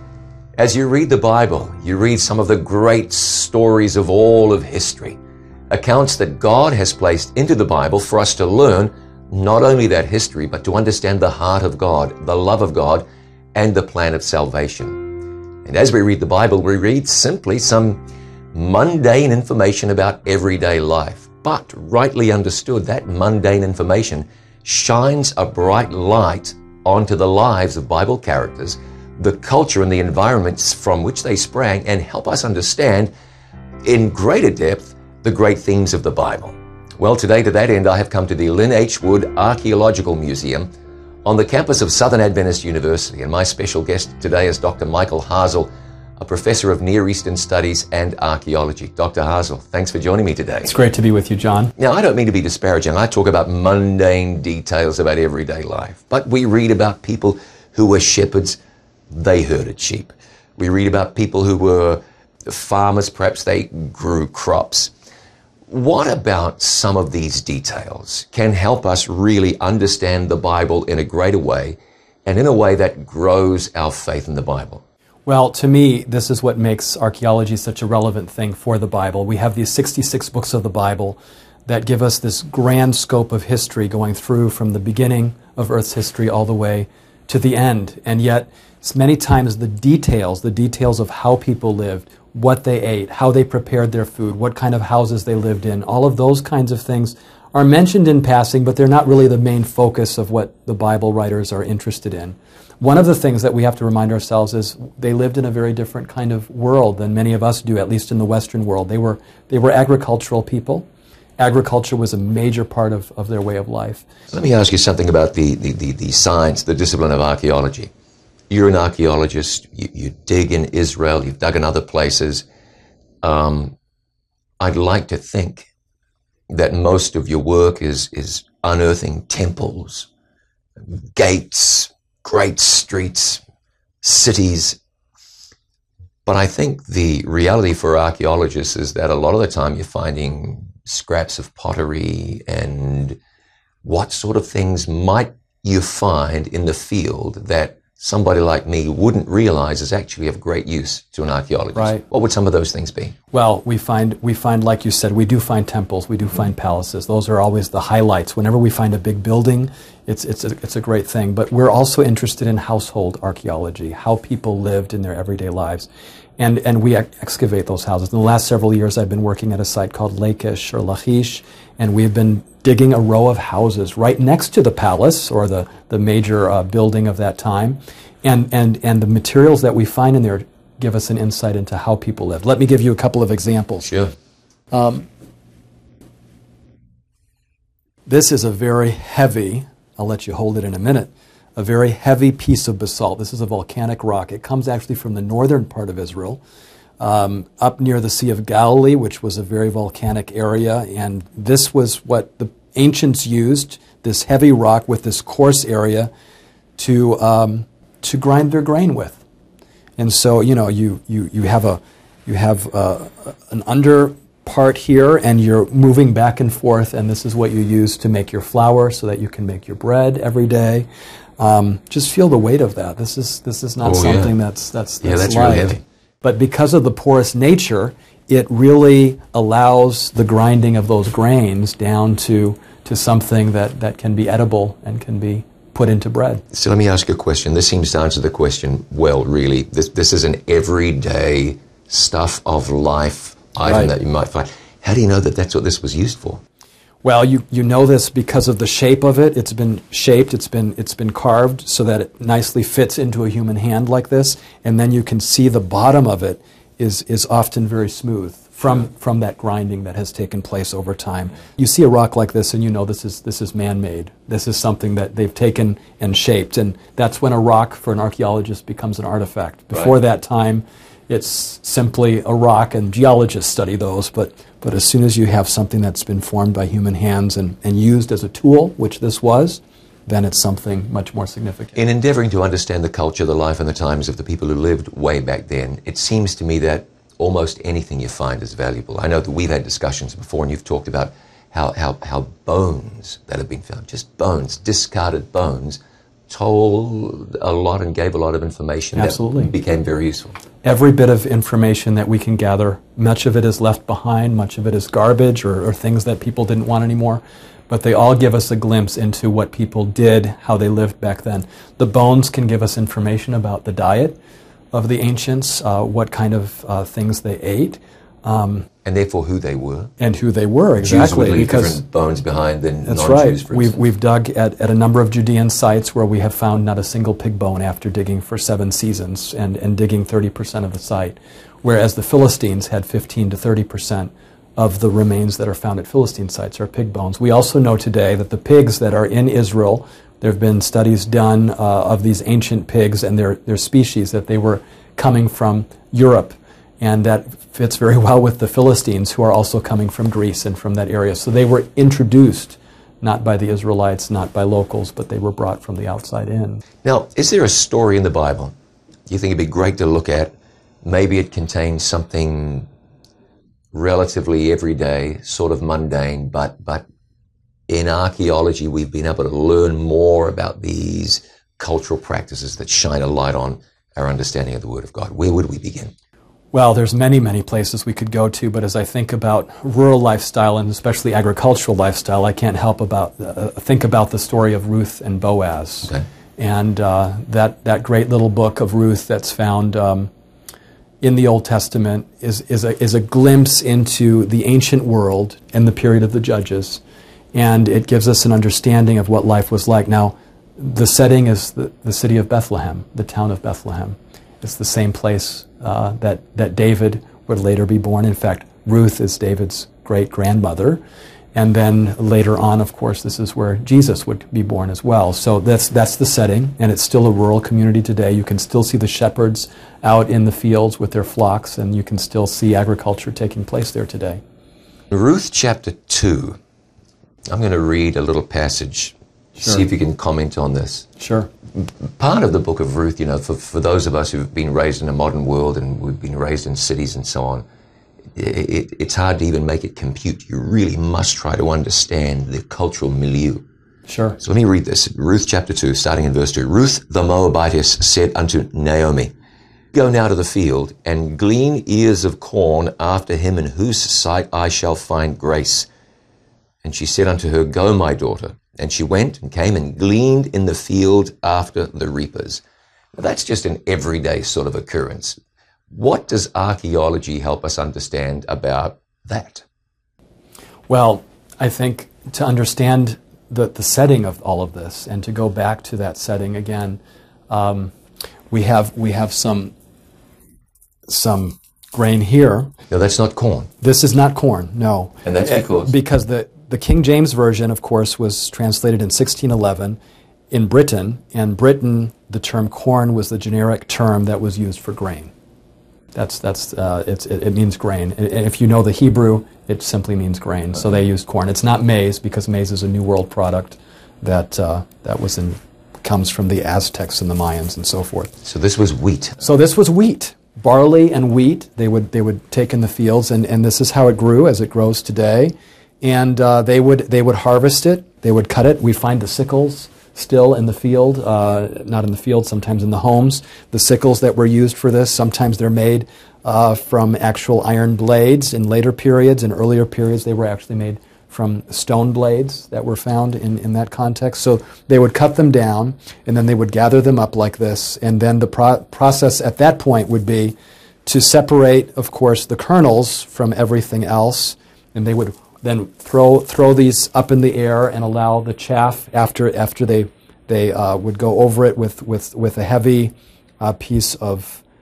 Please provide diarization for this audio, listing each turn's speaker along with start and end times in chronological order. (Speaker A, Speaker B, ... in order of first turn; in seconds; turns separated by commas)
Speaker A: 0.6-5.2, Speaker A: 5.7-18.0, Speaker A: 18.5-33.1, Speaker A: 33.8-40.7, Speaker A: 41.2-50.7, Speaker B: 50.6-51.7, Speaker A: 51.8-58.6, Speaker A: 59.1-64.9, Speaker A: 65.7-74.8, Speaker B: 75.3-110.9, Speaker B: 111.4-114.0, Speaker A: 114.3-117.9, Speaker A: 118.5-122.5, Speaker A: 123.2-123.7, Speaker A: 124.6-125.7, Speaker A: 126.5-130.1, Speaker A: 130.8-133.4, Speaker A: 134.0-134.8, Speaker A: 136.2-143.2, Speaker A: 143.8-153.2, Speaker B: 151.7-152.0, Speaker B: 153.3-183.9, Speaker A: 183.8-184.1, Speaker B: 184.7-185.1, Speaker B: 188.1-196.4, Speaker B: 197.0-206.1, Speaker B: 206.8-209.2, Speaker B: 210.0-220.9, Speaker B: 221.4-236.4, Speaker A: 223.8-224.3, Speaker A: 225.0-225.8, Speaker A: 236.5-246.4, Speaker B: 243.7-243.9, Speaker B: 247.0-281.8, Speaker A: 281.8-300.4, Speaker B: 298.9-299.5, Speaker B: 300.6-314.2, Speaker B: 314.7-318.7, Speaker A: 318.9-319.9, Speaker B: 320.0-321.8, Speaker A: 320.8-323.8, Speaker B: 322.9-356.6, Speaker A: 356.8-358.5, Speaker A: 359.1-362.7, Speaker A: 363.7-366.9, Speaker A: 367.7-375.9, Speaker B: 376.5-390.1, Speaker B: 391.0-396.8, Speaker B: 397.3-410.8, Speaker B: 411.4-424.2, Speaker A: 424.9-426.4, Speaker A: 427.3-430.9, Speaker B: 429.4-429.6, Speaker B: 431.0-431.3, Speaker A: 431.6-437.5, Speaker A: 438.1-443.4, Speaker B: 443.9-444.2, Speaker A: 444.2-449.1, Speaker A: 449.7-455.7, Speaker A: 456.6-462.4, Speaker A: 462.9-465.2, Speaker A: 465.7-469.4, Speaker B: 470.7-477.7, Speaker B: 478.3-479.5, Speaker B: 480.9-482.5, Speaker A: 482.7-483.5, Speaker B: 483.6-489.8, Speaker A: 485.1-485.7, Speaker B: 490.3-495.1, Speaker B: 495.9-508.1, Speaker A: 508.2-509.2, Speaker B: 509.2-554.4